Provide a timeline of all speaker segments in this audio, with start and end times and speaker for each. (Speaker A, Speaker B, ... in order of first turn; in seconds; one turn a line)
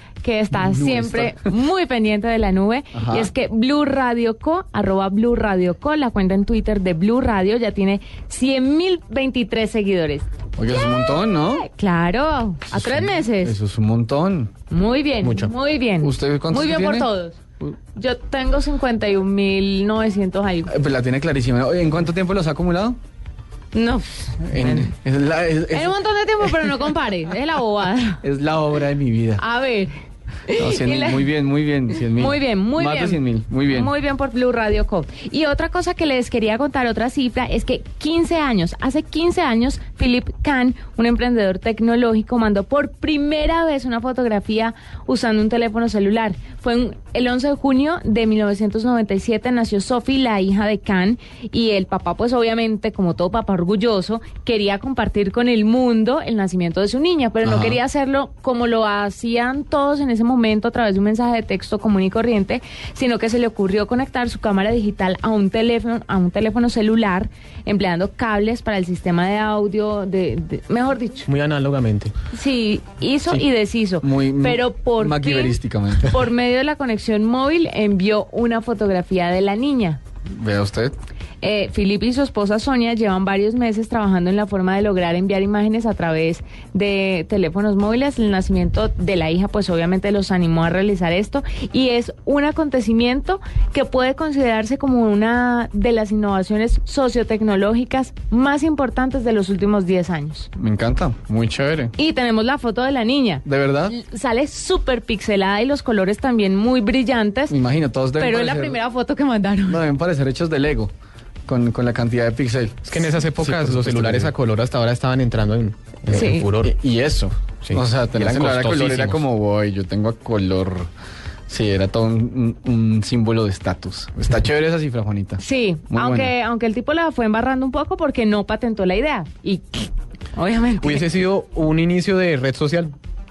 Speaker A: 0.2-13.6
Speaker B: 0.5-1.5
Speaker B: 2.9-3.3
Speaker B: 10.6-11.7
Speaker B: 12.7-14.5
Speaker A: 14.7-17.4
Speaker C: 15.2-15.5
Speaker B: 16.0-17.1
Speaker A: 17.9-20.7
Speaker B: 20.7-23.0
Speaker A: 23.7-24.9
Speaker B: 24.5-25.9
Speaker A: 25.7-28.2
Speaker B: 28.2-29.4
Speaker A: 29.4-29.9
Speaker A: 30.5-31.3
Speaker B: 30.5-33.9
Speaker A: 31.9-71.3
Speaker B: 57.4-57.8
Speaker C: 71.3-72.1
Speaker A: 72.3-80.0
Speaker B: 74.0-76.1
Speaker B: 80.4-80.9
Speaker A: 81.4-100.5
Speaker B: 100.5-101.9
Speaker A: 102.0-107.5
Speaker B: 103.4-104.0
Speaker B: 107.5-108.8
Speaker A: 108.2-109.8
Speaker B: 109.7-110.9
Speaker B: 111.5-114.3
Speaker C: 112.8-116.7
Speaker A: 116.1-116.5
Speaker B: 116.6-120.9
Speaker C: 117.6-119.2
Speaker B: 121.5-126.3
Speaker A: 125.4-131.1
Speaker C: 130.8-132.9